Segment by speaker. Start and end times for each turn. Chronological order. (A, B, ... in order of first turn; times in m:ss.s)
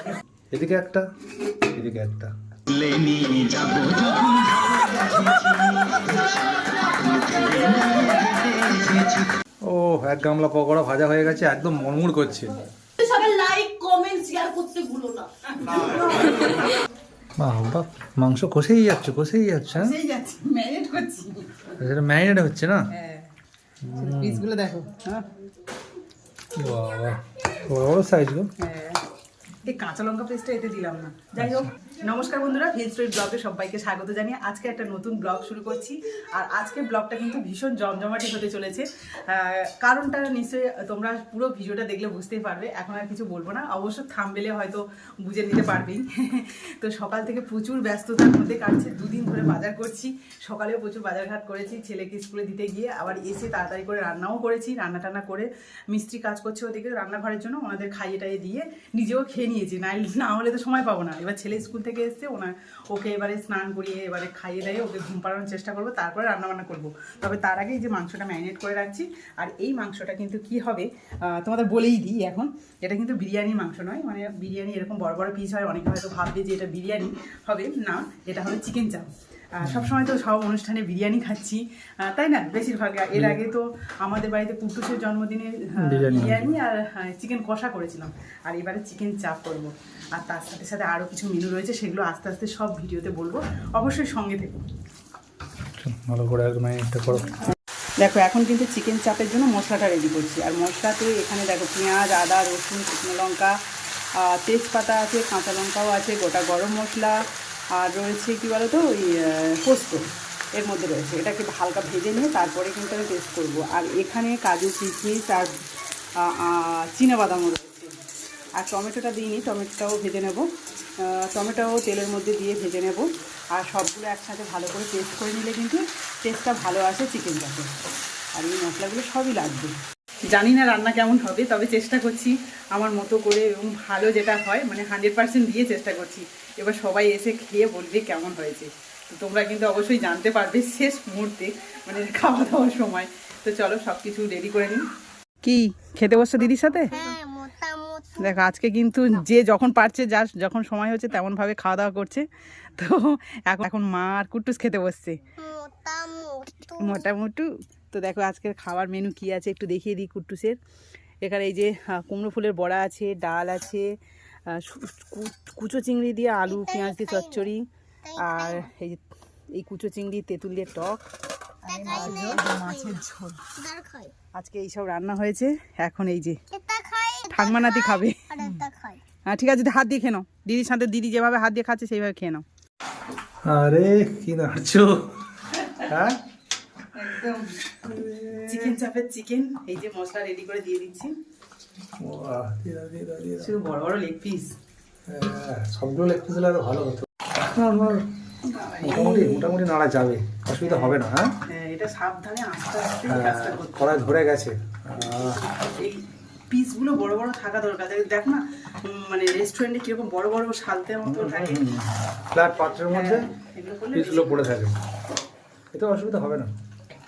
0:00.5-0:01.0 A
0:01.7-0:02.3 A
0:03.9-0:05.5 B
0:07.4-0:09.0 B
0:09.6-0:12.6 A
0:13.0-0:15.3 B
0:15.6-0:16.6 C
0:17.4-0:20.0 A
0:19.7-0:21.6 C
0:21.8-0:22.8 A
0:22.9-0:23.3 C
0:23.8-0:24.4 A
0:23.9-0:25.2 C
0:26.6-0:28.5 A
0:28.6-0:29.0 C
0:29.6-1:34.5 C
0:31.4-0:31.7 A
1:19.6-1:19.9 A
1:25.8-1:26.5 A
1:35.8-1:37.3 A
1:38.0-1:43.6 C
1:44.2-1:47.2 C
1:47.7-1:55.5 C
1:56.2-1:58.0 C
1:58.6-2:00.5 C
2:01.0-2:07.7 C
2:08.3-2:09.8 C
2:10.3-2:24.8 C
2:25.4-2:27.2 C
2:28.1-2:32.2 C
2:32.8-2:35.2 C
2:36.6-2:40.6 C
2:41.2-2:43.9 C
2:44.5-2:49.0 C
2:49.5-2:51.0 C
2:51.6-2:53.4 C
2:54.3-2:56.4 C
2:57.2-2:58.7 C
2:59.3-3:02.4 C
3:03.4-3:05.0 A
3:05.8-3:06.2 A
3:06.9-3:07.5 C
3:07.8-3:08.7 A
3:08.4-3:11.1 C
3:12.0-3:13.5 A
3:13.4-3:14.5 C
3:15.1-3:18.0 A
3:18.4-3:19.5 C
3:18.8-3:21.3 A
3:20.6-3:23.9 C
3:23.1-3:25.4 A
3:25.5-3:31.6 C
3:31.0-3:33.3 A
3:32.9-3:34.4 C
3:33.9-3:34.8 A
3:35.7-3:36.5 A